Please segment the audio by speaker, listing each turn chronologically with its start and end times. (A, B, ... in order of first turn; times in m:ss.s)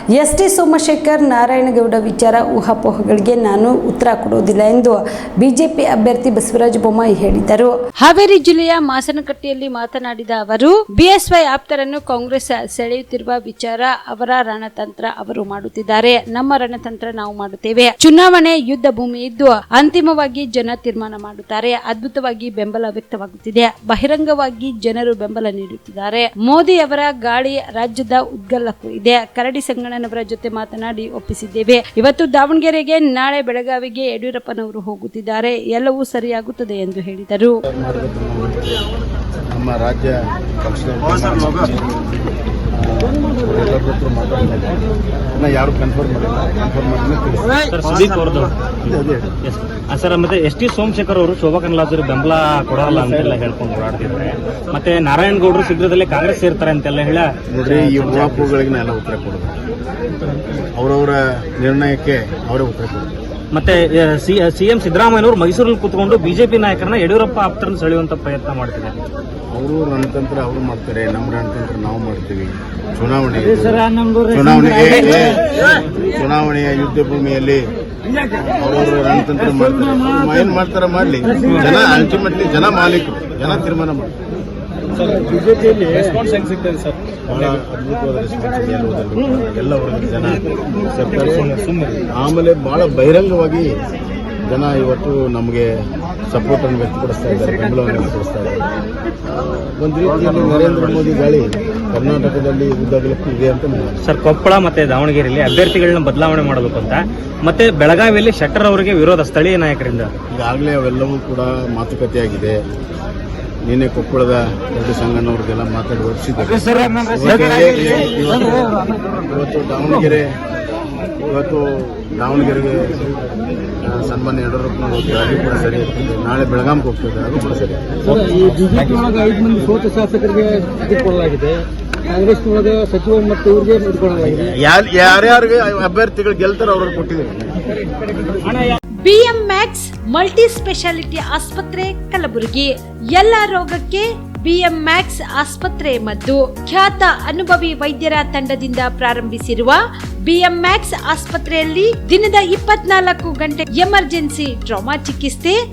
0:00.1-0:37.6 A
0:37.7-0:38.8 B
0:39.5-0:41.8 B
0:42.7-0:44.7 B
0:45.3-0:47.6 B
0:47.7-0:48.9 C
0:48.8-0:49.3 B
0:49.4-0:57.3 C
0:57.5-0:59.6 B
0:58.0-0:58.4 C
1:00.8-1:03.1 B
1:03.5-1:09.0 C
1:09.5-1:17.7 B
1:18.4-1:24.1 B
1:25.2-1:26.6 D
1:27.3-1:31.5 B
1:31.5-1:32.0 C
1:32.1-1:33.7 B
1:34.4-1:35.7 B
1:36.3-1:38.6 B
1:39.8-1:44.0 B
1:44.0-1:50.1 C
1:50.3-1:52.6 B
1:53.6-2:00.3 B
2:01.2-2:03.1 B
2:03.8-2:08.0 B
2:08.1-2:14.5 D
2:14.2-2:17.7 B
2:18.4-2:18.8 C
2:19.0-2:35.6 A